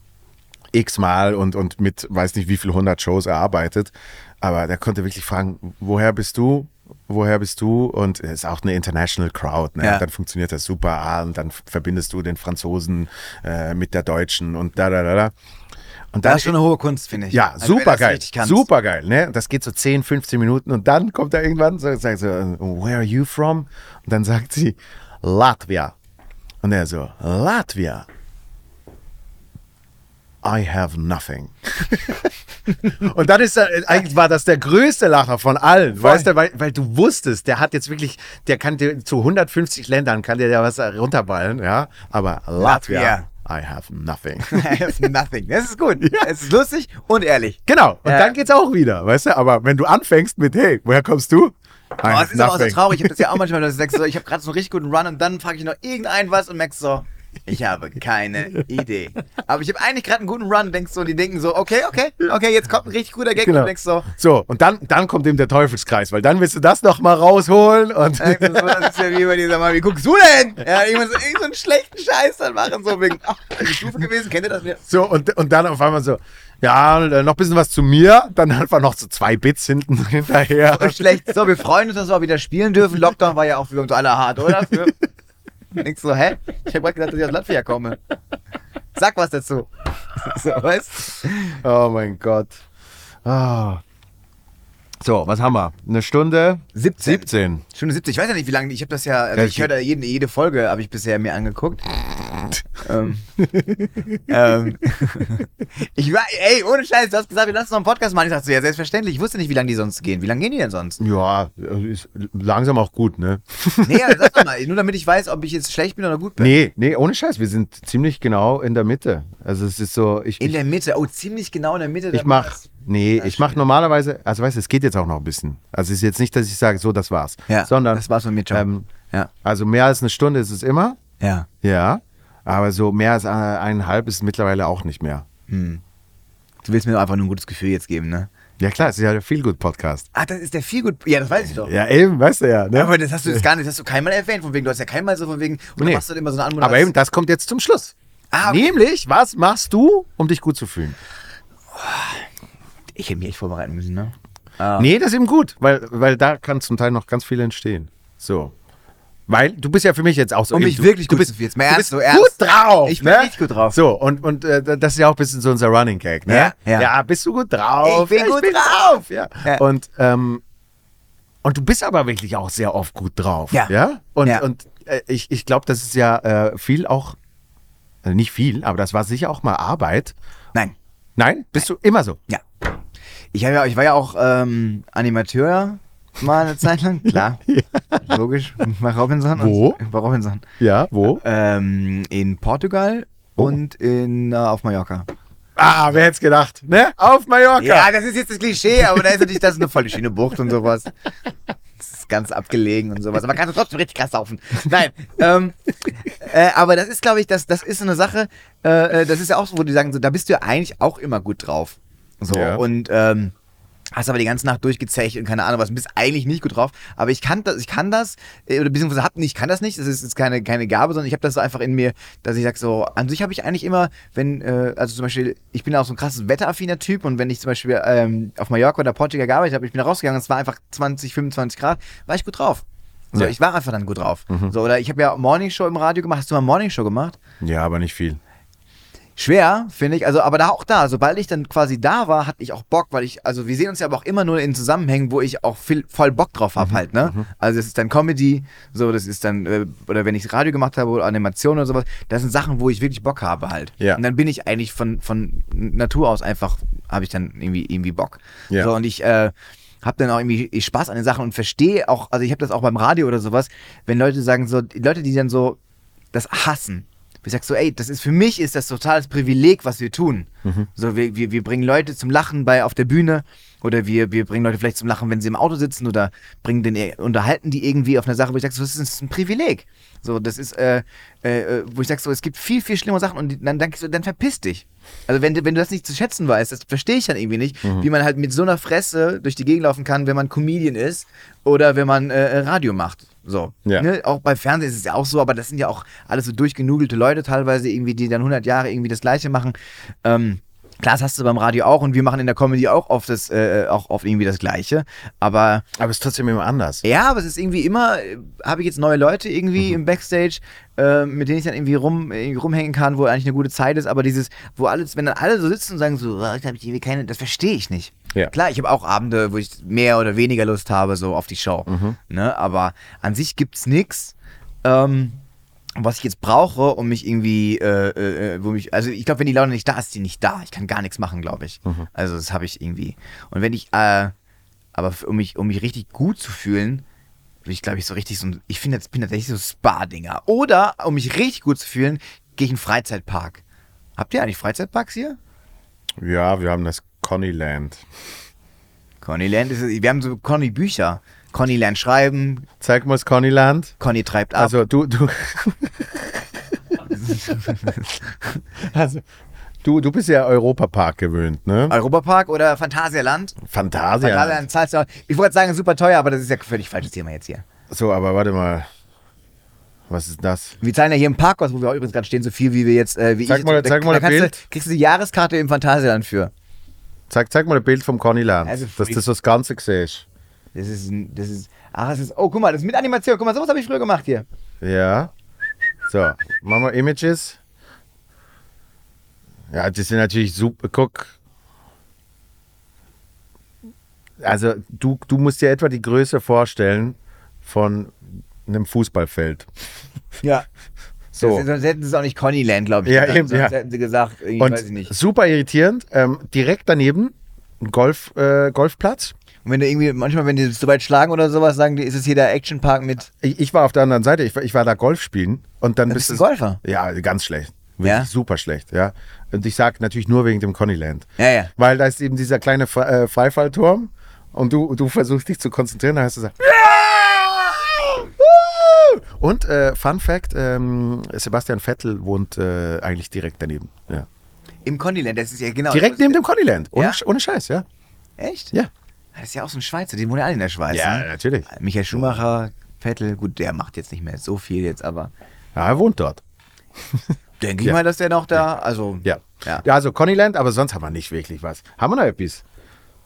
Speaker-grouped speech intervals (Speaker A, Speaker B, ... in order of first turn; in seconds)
Speaker A: 0.7-15.3, 16.1-16.5, 17.3-25.9, 26.6-28.1, 30.4-32.3, 32.8-45.0, 46.0-46.3, 47.7-53.4, 63.4-69.0, 74.9-81.3, 91.6-92.5, 93.2-93.8, 95.0-97.6, 99.3-99.7, 111.0-114.4, 116.4-120.6, 122.1-128.9, 129.4-131.0, 131.6-135.2, 138.6-140.1, 141.5-143.4, 145.8-146.0, 146.6-151.0, 154.8-158.5, 159.3-170.4, 171.4-177.2, 178.0-180.1, 181.2-182.2, 187.5-188.0, 189.3-189.8, 190.6-191.2, 195.6-197.9, 212.3-212.6, 237.4-238.2, 246.6-247.2, 305.8-306.8, 321.7-321.9, 346.0-347.8, 352.6-353.8, 354.4-356.3, 358.6-359.0, 359.6-361.7, 363.4-364.4, 367.7-368.7, 369.9-370.6, 373.2-374.3, 377.1-380.0, 384.6-385.1, 385.9-387.4, 389.5-391.1, 394.2-399.5, 401.1-401.4, 402.8-403.5, 404.4-409.1, 413.2-434.1, 435.7-437.6, 440.7-442.1, 445.5-446.2, 446.9-447.8, 449.0-452.4
Speaker B: 16.2-18.6, 42.6-43.3, 44.5-48.3, 52.0-64.1, 68.2-74.8, 80.7-85.0, 85.7-88.0, 89.0-91.6, 96.7-101.9, 102.8-103.2, 104.3-111.0, 113.8-116.5, 120.4-122.7, 123.2-123.6, 127.5-129.3, 131.2-131.5, 135.5-135.8, 136.6-138.3, 140.1-141.7, 142.7-146.9, 148.3-148.7, 151.8-152.2, 152.9-154.9, 160.5-163.8, 166.3-166.9, 167.8-169.6, 183.3-187.4, 188.0-190.4, 191.2-195.1, 197.6-200.9, 201.8-213.3, 213.9-237.2, 239.2-265.6, 266.1-305.6, 306.8-325.2, 325.8-334.1, 334.7-336.8, 337.4-343.4, 344.0-345.2, 349.0-352.5, 353.8-354.6, 356.9-358.4, 361.7-363.4, 364.0-367.4, 370.6-376.3, 378.4-379.0, 380.5-384.2, 400.2-400.5, 401.1-404.9, 409.4-413.1, 415.9-416.6, 417.8-418.1, 421.2-421.5, 434.6-436.2, 436.7-437.0, 438.2-438.5, 439.1-445.1, 447.4-449.6